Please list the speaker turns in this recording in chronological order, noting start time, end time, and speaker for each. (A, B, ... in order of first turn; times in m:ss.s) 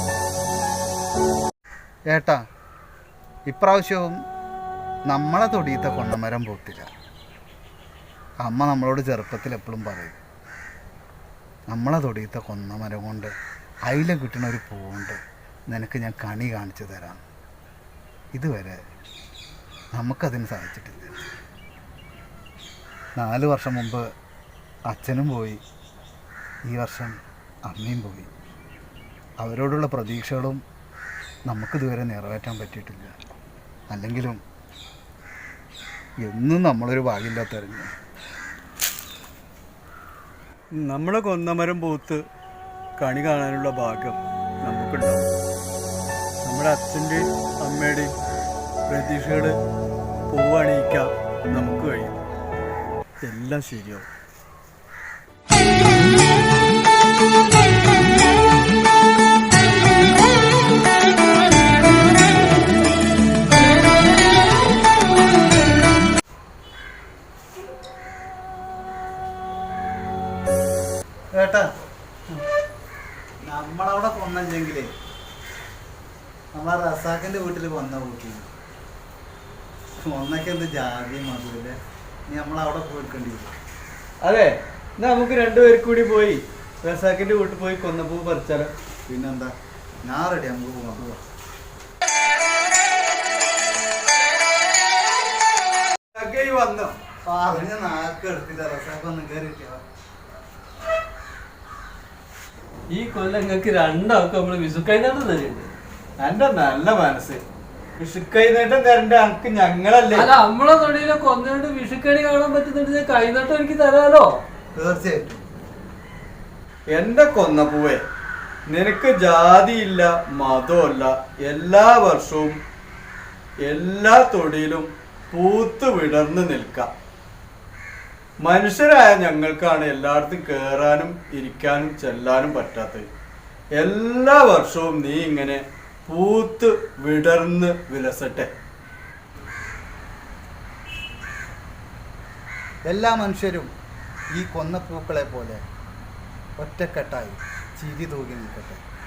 0:02.1-0:02.4 A
0:03.5-0:04.2 A
0:05.1-0:06.9 A
0:08.4-0:10.2 A
0:11.7-0:13.3 A
0:13.9-0:17.2 A
0:18.3-0:18.8 A
0:19.9-0:21.2 A
0:23.2-0:24.0 A
0:24.9-0:25.6 A
0:26.7-0:27.2 A
0:27.7-0:28.3 A
0:29.4-0:30.6 A
0:31.5-0:33.1 A
0:33.9-0:34.4 A
0:36.2-0:37.9 A
0:40.8-0:42.2 B
0:43.0-0:45.3 B
0:46.4-0:48.1 B
0:48.9-0:49.6 B
0:50.3-0:52.2 B
0:53.2-0:54.1 B
1:11.4-1:11.7 A
1:13.4-1:14.9 A
1:16.5-1:18.5 A
1:20.0-1:23.5 A
1:24.2-1:28.7 B
1:29.1-1:29.5 A
1:30.0-1:31.2 A
1:36.1-1:37.0 B
1:37.2-1:39.8 A
1:42.9-1:45.7 C
1:46.2-1:47.4 B
1:48.0-1:50.3 B
1:50.4-1:54.3 C
1:54.7-1:55.4 A
1:56.9-1:58.0 B
1:58.7-2:02.6 B
2:03.6-2:06.9 B
2:08.4-2:13.0 B
2:13.8-2:18.5 B
2:22.9-2:23.7 A
2:24.3-2:25.6 A
2:26.6-2:28.8 A